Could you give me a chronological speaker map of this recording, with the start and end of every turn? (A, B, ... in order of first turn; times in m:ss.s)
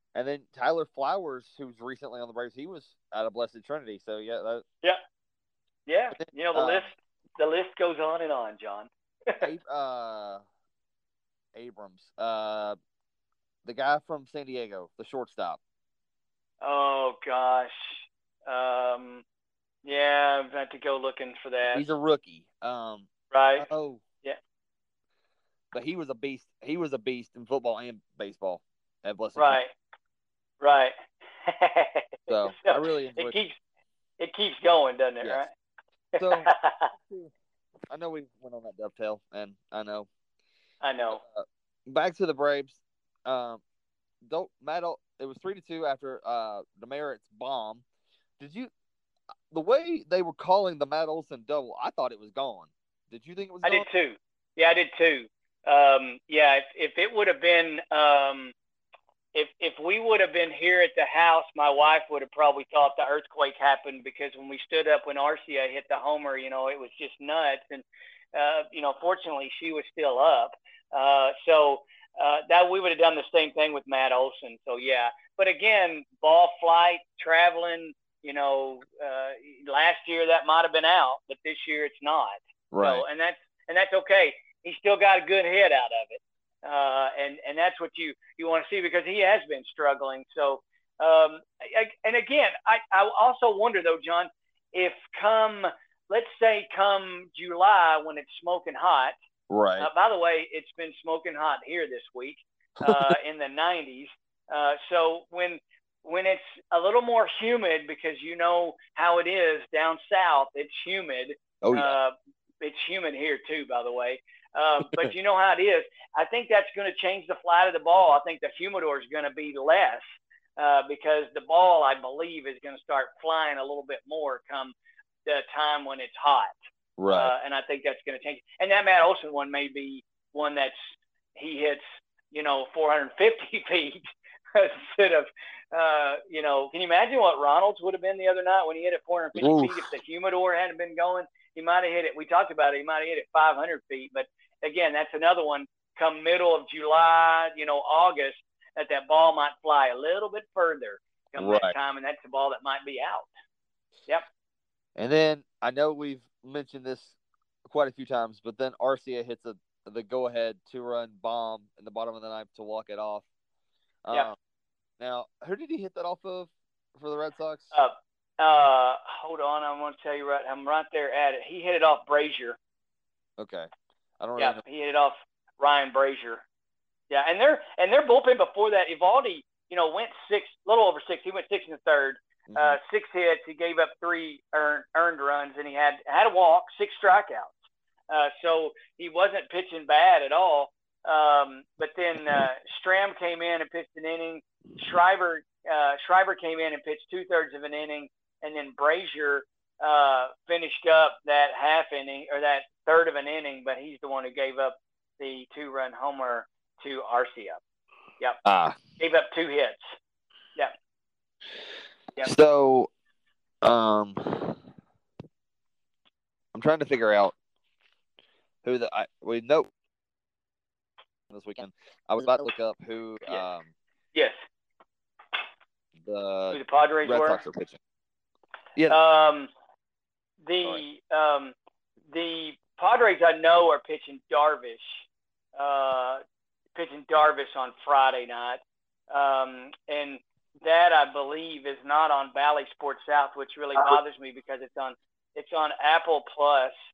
0:00.1-0:04.6 A
0:05.9-0:09.5 B
0:06.2-0:06.9 A
0:09.4-0:10.4 A
0:11.5-0:12.8 A
0:13.6-0:15.6 A
0:16.6-0:19.2 B
0:19.8-0:21.8 B
0:21.7-0:24.0 A
0:23.3-0:23.6 B
0:25.7-0:29.6 A
0:29.4-0:29.7 B
0:30.6-0:33.5 B
0:32.3-0:33.4 A
0:34.2-0:35.5 B
0:36.1-0:36.9 B
0:36.2-0:37.3 A
0:37.9-0:40.1 A
0:40.8-0:41.2 B
0:41.1-0:43.6 A
0:44.2-0:47.8 A
0:48.4-0:48.7 A
0:49.5-0:53.9 A
0:53.6-0:58.5 B
0:59.3-1:39.1 B
1:22.7-1:23.0 A
1:39.5-1:39.9 A
1:39.8-2:00.0 B
1:42.8-1:43.2 A
1:51.6-1:52.0 A
2:00.6-2:04.7 B
2:05.2-2:06.5 B
2:07.0-2:07.3 A
2:07.1-2:33.3 B
2:19.4-2:19.8 A
2:31.4-2:31.7 A
2:35.0-2:37.1 A
2:37.7-2:43.2 A
2:44.0-2:44.4 A
2:45.0-2:47.7 A
2:47.7-2:52.6 B
2:53.4-2:54.6 A
2:54.4-2:56.4 B
2:57.1-3:07.5 B
3:02.5-3:02.8 A
3:08.1-3:27.6 B
3:28.4-3:28.8 A
3:29.0-3:30.0 B
3:32.2-3:32.9 A
3:33.6-3:34.6 A
3:36.5-3:37.3 A
3:38.6-3:39.7 A
3:41.3-3:43.7 A
3:46.0-3:47.8 A
3:46.5-3:47.4 B
3:48.9-3:49.5 B
3:50.4-3:51.5 B
3:52.1-3:56.2 B
3:56.7-4:06.7 B